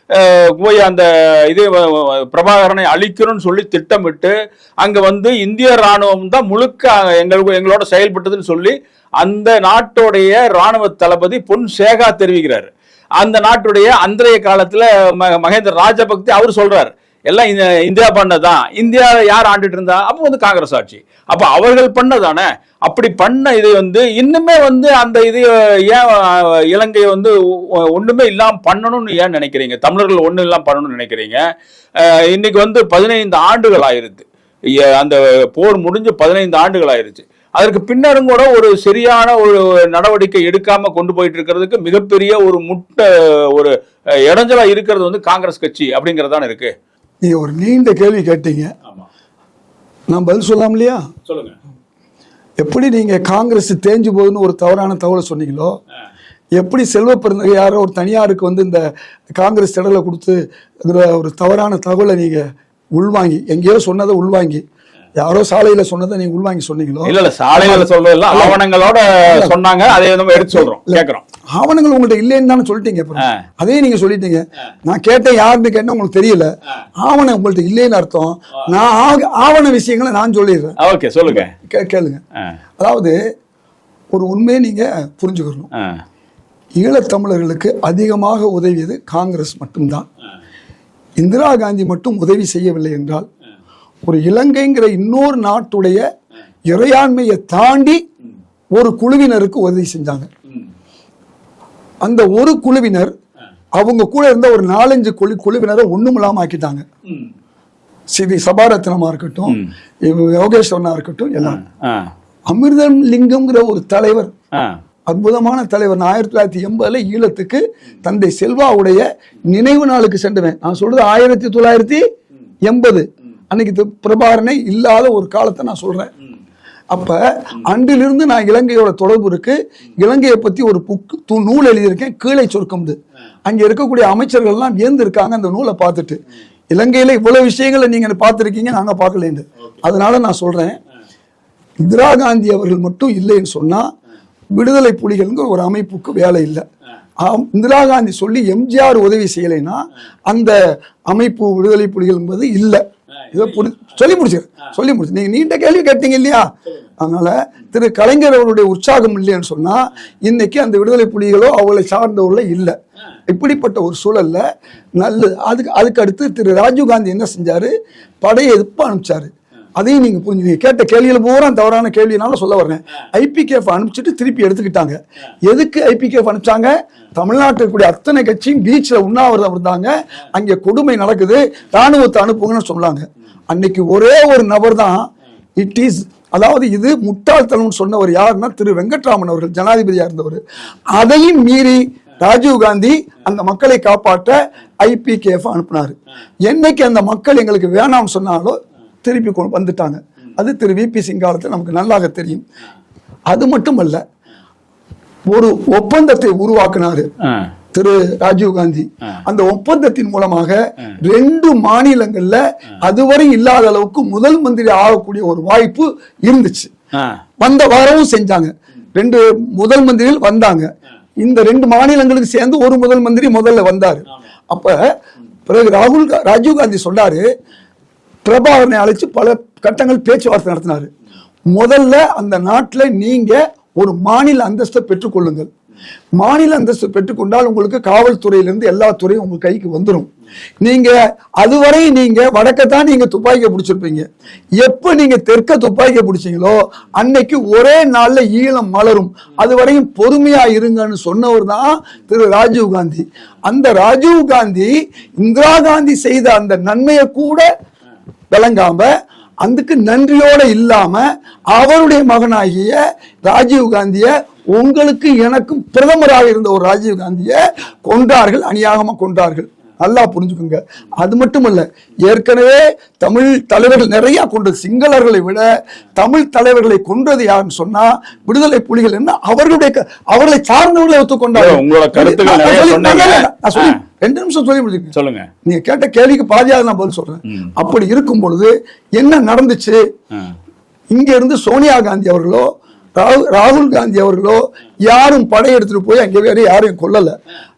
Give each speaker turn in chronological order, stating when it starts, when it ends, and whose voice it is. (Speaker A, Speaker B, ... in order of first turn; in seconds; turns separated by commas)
Speaker A: 0.1-31.4, Speaker A: 32.0-34.2, Speaker A: 34.8-46.7, Speaker B: 47.2-48.7, Speaker B: 50.1-51.1, Speaker A: 51.3-51.5, Speaker B: 52.6-55.7, Speaker B: 56.5-64.6, Speaker B: 65.2-68.6, Speaker A: 67.0-71.2, Speaker B: 70.3-80.8, Speaker A: 80.8-81.5, Speaker B: 81.3-82.2, Speaker B: 82.8-83.1, Speaker B: 84.1-85.7, Speaker B: 86.8-90.1, Speaker B: 91.2-93.3, Speaker B: 94.0-96.0, Speaker B: 96.7-98.0, Speaker B: 98.7-100.3, Speaker B: 102.0-103.1, Speaker B: 103.8-106.8, Speaker B: 108.1-111.6, Speaker A: 111.4-112.1, Speaker B: 112.5-114.3, Speaker B: 115.1-122.0, Speaker B: 122.7-126.1, Speaker B: 126.9-136.2, Speaker B: 136.7-140.8, Speaker B: 141.8-143.9, Speaker B: 144.5-146.6, Speaker B: 147.2-162.8, Speaker B: 163.3-164.4, Speaker B: 165.0-185.1, Speaker B: 185.6-190.4, Speaker B: 190.9-195.9, Speaker B: 196.5-202.4, Speaker B: 203.3-204.0, Speaker B: 205.3-207.1, Speaker A: 207.2-207.5, Speaker B: 207.7-216.7, Speaker B: 217.4-220.7, Speaker B: 221.2-224.8, Speaker B: 225.5-227.2, Speaker B: 228.2-230.9, Speaker B: 231.5-235.5, Speaker B: 236.2-240.1, Speaker B: 240.6-257.5, Speaker B: 258.3-258.9, Speaker B: 259.4-284.9, Speaker A: 281.3-283.8, Speaker A: 284.9-285.3, Speaker B: 285.4-289.8, Speaker B: 290.9-297.1